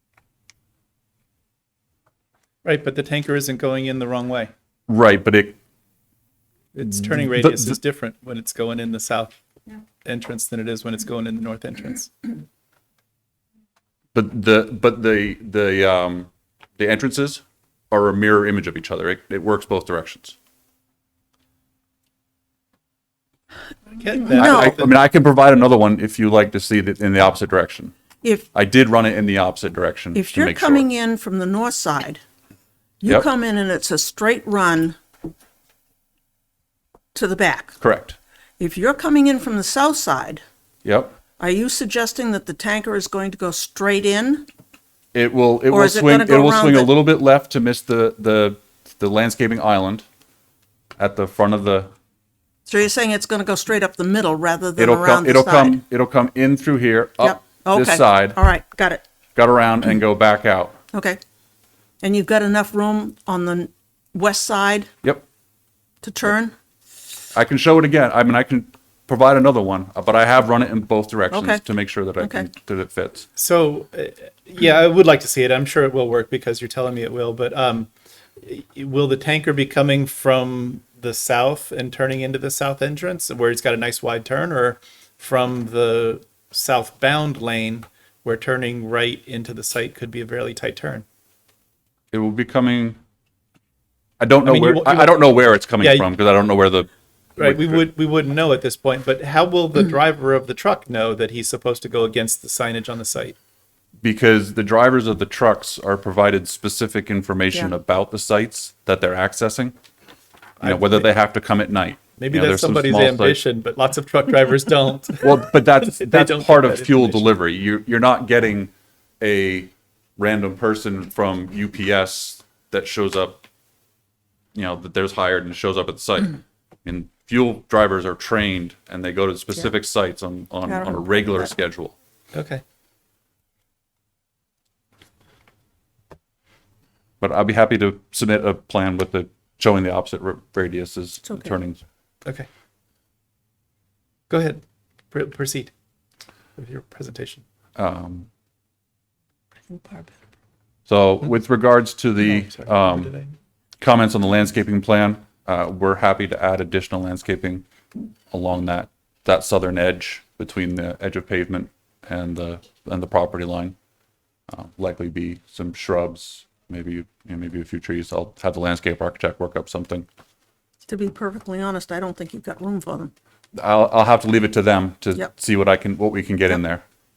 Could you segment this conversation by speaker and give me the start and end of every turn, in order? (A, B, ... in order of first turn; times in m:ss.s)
0:02.6-0:04.5 A
0:04.9-0:05.6 B
0:06.7-0:09.4 A
0:06.9-0:07.8 B
0:10.0-0:12.1 A
0:14.1-0:20.4 B
0:24.0-0:24.9 A
0:24.3-0:27.9 B
0:24.3-0:24.8 C
0:28.2-0:28.5 C
0:28.5-0:30.9 B
0:30.1-0:32.2 C
0:33.0-0:35.0 C
0:37.1-0:37.8 C
0:37.8-0:38.2 B
0:38.6-0:40.4 C
0:40.8-0:41.2 B
0:41.4-0:44.5 C
0:45.1-0:50.0 B
0:45.7-0:46.9 C
0:51.0-0:51.9 B
0:52.7-0:55.8 C
0:54.8-0:58.4 B
0:57.2-0:59.0 C
0:59.4-1:00.8 B
1:00.9-1:01.2 C
1:02.0-1:04.9 C
1:06.0-1:06.5 C
1:07.3-1:13.3 B
1:11.3-1:11.6 C
1:12.2-1:12.5 C
1:13.4-1:31.0 A
1:32.1-1:33.0 B
1:34.2-1:37.8 B
1:34.4-1:36.1 A
1:37.4-1:43.4 A
1:44.0-1:49.7 B
1:50.6-1:51.1 A
1:50.6-1:53.4 B
1:52.2-1:57.3 A
1:55.2-2:03.4 B
2:04.5-2:11.9 B
2:10.7-2:11.5 C
2:12.3-2:12.6 A
2:17.2-2:21.8 B
2:21.3-2:21.5 C
2:24.3-2:25.7 A
2:26.6-2:27.4 A
2:27.8-2:28.3 B
2:29.7-2:30.1 C
2:30.9-2:33.1 B
2:32.2-2:33.3 A
2:33.8-2:37.6 B
2:38.3-2:43.8 B
2:44.5-2:50.1 B
2:50.9-2:53.1 C
2:53.6-2:56.8 B